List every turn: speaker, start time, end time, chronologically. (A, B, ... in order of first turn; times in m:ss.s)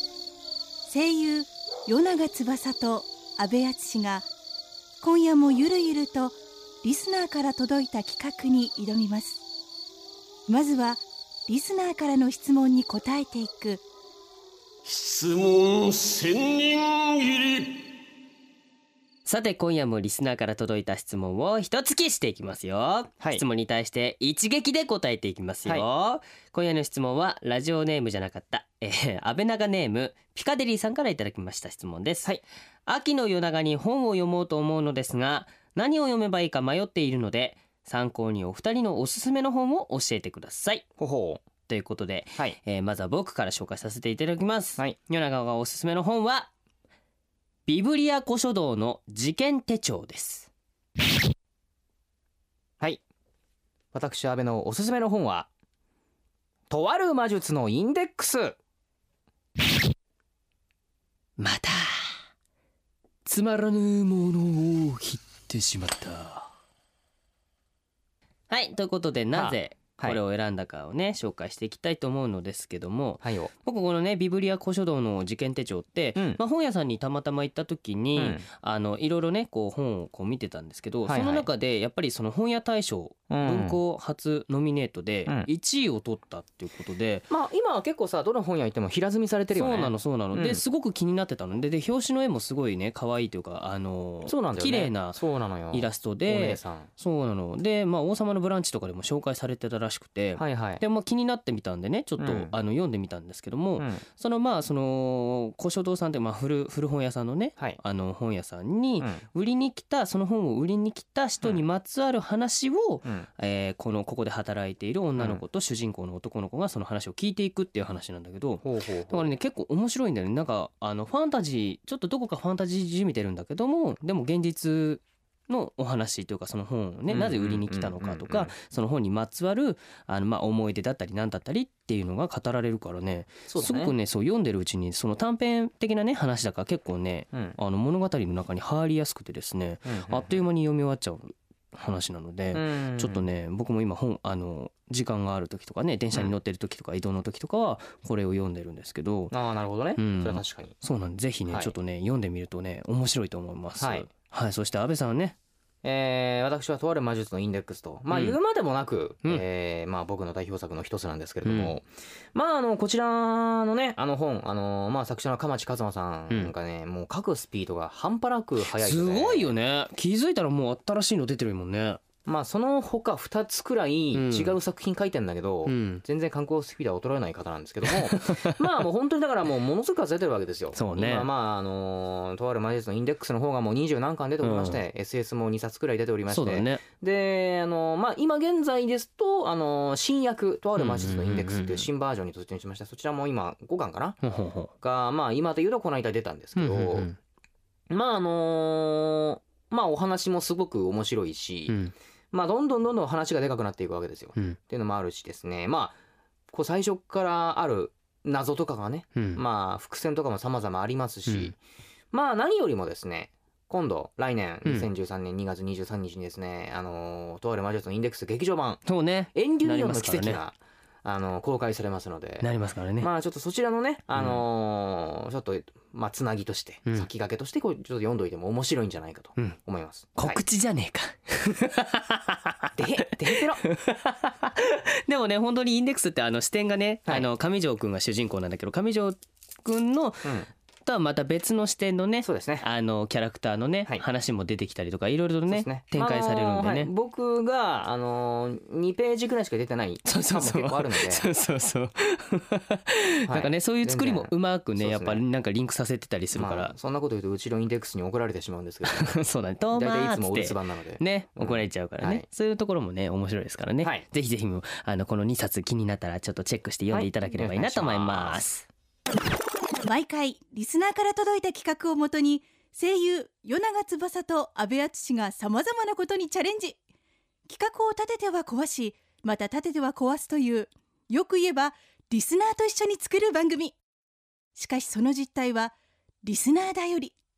0:00.9-0:04.3 A
0:05.0-0:09.4 A
0:10.5-0:13.8 A
0:14.8-0:17.8 B
0:19.2-0:32.3 C
0:32.8-0:40.8 C
0:41.0-0:41.4 D
0:41.7-0:46.5 C
0:47.6-0:50.5 C
0:53.9-0:55.5 D
0:56.7-0:58.6 D
1:01.4-1:02.1 C
1:03.2-1:06.5 C
1:08.5-1:27.3 C
1:09.3-1:10.2 D
1:13.2-1:13.5 D
1:16.2-1:16.4 D
1:18.1-1:18.4 D
1:21.1-1:21.5 D
1:23.3-1:23.8 D
1:27.3-1:30.6 D
1:29.5-1:35.2 C
1:34.2-1:36.9 D
1:35.7-2:29.3 C
1:40.4-1:40.8 D
1:42.2-1:42.5 D
1:43.8-1:44.0 D
1:58.6-1:59.3 D
2:07.1-2:08.5 D
2:13.5-2:13.9 D
2:17.3-2:17.6 D
2:19.8-2:20.3 D
2:22.5-2:23.2 D
2:29.3-2:30.8 D
2:30.0-2:35.4 C
2:31.5-2:31.7 D
2:33.8-2:34.1 D
2:35.8-2:49.5 D
2:38.1-2:38.4 C
2:41.4-2:41.7 C
2:48.7-2:52.0 C
2:52.2-3:14.2 D
2:54.1-2:54.6 C
2:55.6-2:56.0 C
2:57.8-2:58.6 C
3:00.8-3:01.3 C
3:04.4-3:04.8 C
3:06.3-3:06.8 C
3:10.8-3:11.9 C
3:14.2-3:14.7 C
3:14.8-3:17.1 D
3:16.6-3:17.2 C
3:17.9-3:21.8 D
3:21.7-3:21.9 C
3:22.3-3:26.0 D
3:26.5-3:31.6 D
3:29.2-3:29.4 C
3:31.3-3:31.5 C
3:32.1-3:38.8 D
3:38.8-3:40.4 C
3:39.3-3:42.5 D
3:42.4-3:43.1 C
3:43.0-3:50.4 D
3:44.2-3:44.4 C
3:50.2-4:06.9 C
3:52.8-3:53.6 D
4:00.2-4:00.5 D
4:02.2-4:02.6 D
4:05.5-4:11.2 D
4:10.0-4:16.7 C
4:13.3-4:15.2 D
4:16.3-4:19.1 D
4:18.9-4:28.7 C
4:19.7-4:22.3 D
4:26.9-4:28.4 D
4:29.8-4:36.8 A
4:37.5-4:43.8 A
4:44.6-4:47.2 A